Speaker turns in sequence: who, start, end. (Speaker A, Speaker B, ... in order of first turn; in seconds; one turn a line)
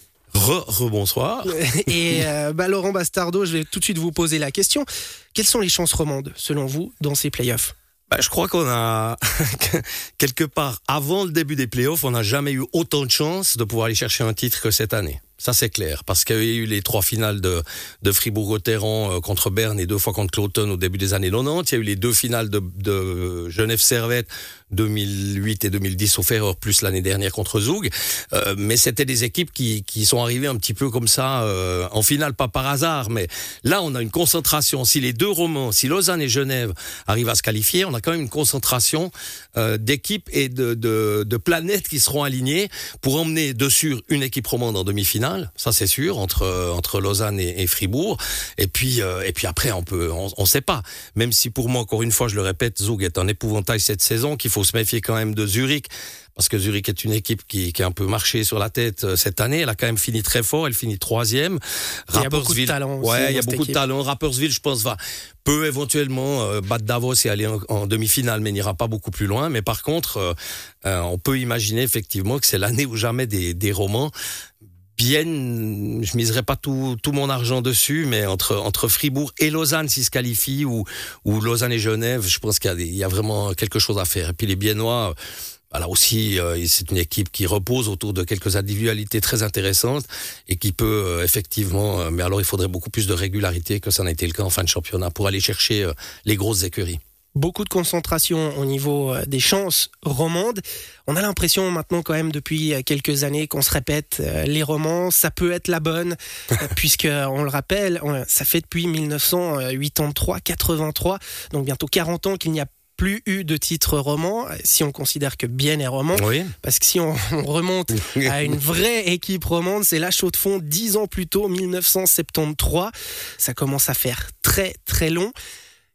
Speaker A: 0.3-1.6
Speaker B: 1.5-7.7
Speaker A: 8.1-74.1
Speaker B: 62.1-63.8
Speaker A: 75.0-85.1
Speaker A: 85.7-97.0
Speaker B: 97.3-125.3
Speaker A: 116.1-116.5